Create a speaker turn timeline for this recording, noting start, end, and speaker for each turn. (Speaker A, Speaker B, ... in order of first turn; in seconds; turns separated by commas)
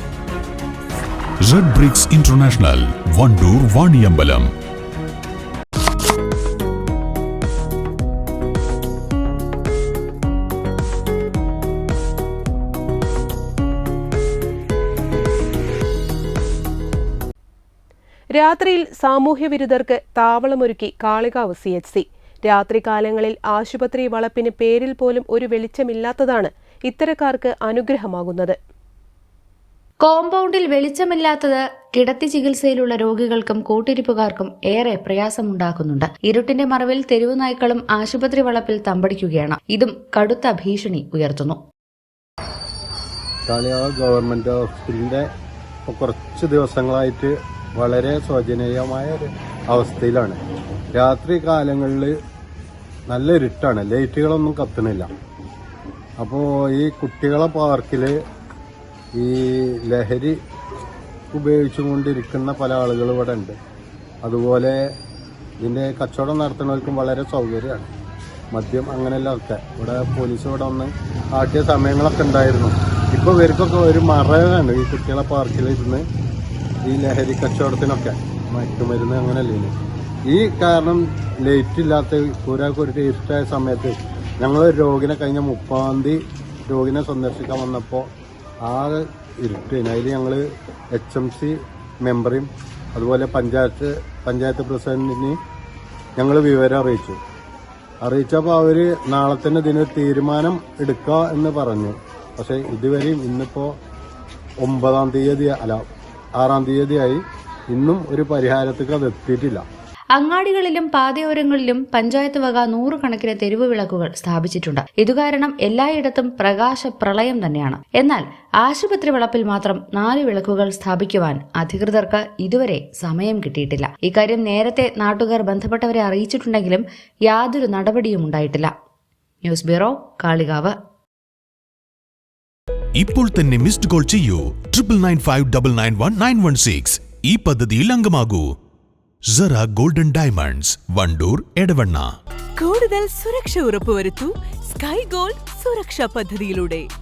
Speaker A: 1.4-4.5, Speaker B: 18.4-28.6, Speaker C: 30.0-41.6, Speaker D: 43.5-45.2, Speaker D: 45.9-50.4, Speaker D: 51.0-52.1, Speaker D: 53.1-55.1, Speaker D: 56.2-58.1, Speaker D: 59.1-60.4, Speaker D: 61.3-63.6, Speaker D: 64.2-64.9, Speaker D: 65.6-67.9, Speaker D: 68.5-76.0, Speaker D: 76.8-79.7, Speaker D: 80.3-88.1, Speaker D: 88.6-90.4, Speaker D: 90.9-95.4, Speaker D: 96.2-97.2, Speaker D: 98.0-103.7, Speaker D: 104.6-105.8, Speaker D: 106.4-109.6, Speaker C: 110.1-128.7, Speaker C: 129.4-130.7, Speaker A: 132.9-138.4, Speaker A: 139.3-142.1, Speaker E: 142.6-146.9